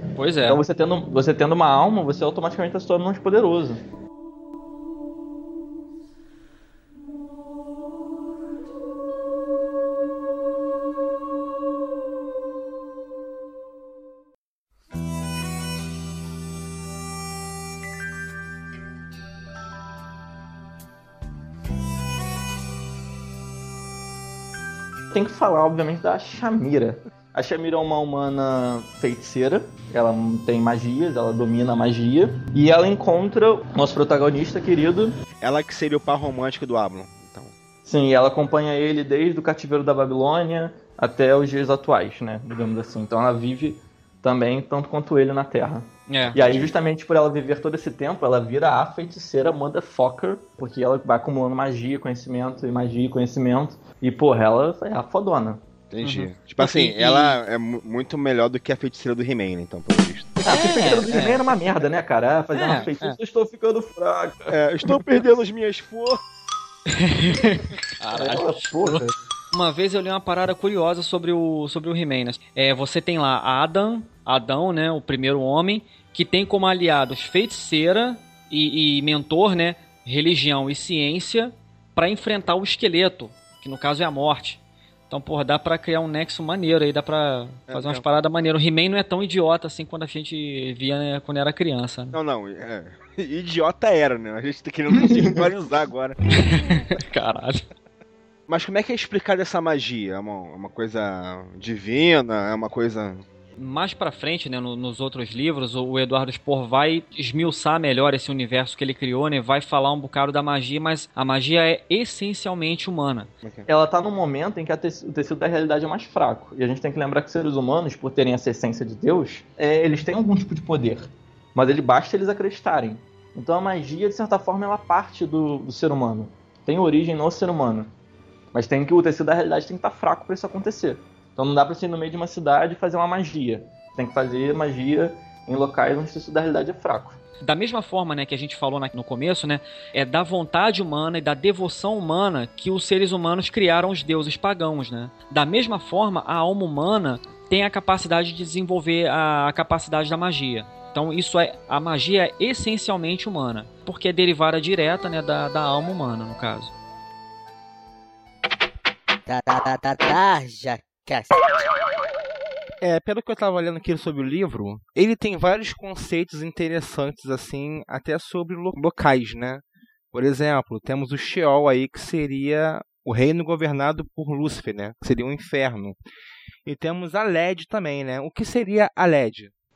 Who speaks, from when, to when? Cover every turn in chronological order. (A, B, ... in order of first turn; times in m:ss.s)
0:00.2-0:00.6 A
0:00.4-0:03.8 B
0:25.1-0:35.2 B
0:35.4-0:37.5 C
0:37.8-0:55.6 B
0:46.1-0:46.4 A
0:46.4-0:46.7 C
0:55.9-1:01.2 C
0:56.0-0:57.4 A
1:00.4-1:04.5 B
1:00.5-1:01.4 A
1:02.5-1:03.2 A
1:04.5-1:06.2 C
1:06.9-1:32.2 A
1:08.1-1:09.2 B
1:27.7-1:28.0 C
1:32.1-1:36.2 C
1:36.3-1:37.6 A
1:38.5-1:43.2 C
1:43.6-1:53.3 A
1:53.7-2:07.9 B
2:08.5-2:17.2 B
2:17.4-2:36.7 A
2:39.3-2:41.3 D
2:42.8-2:56.0 C
2:56.6-2:59.5 C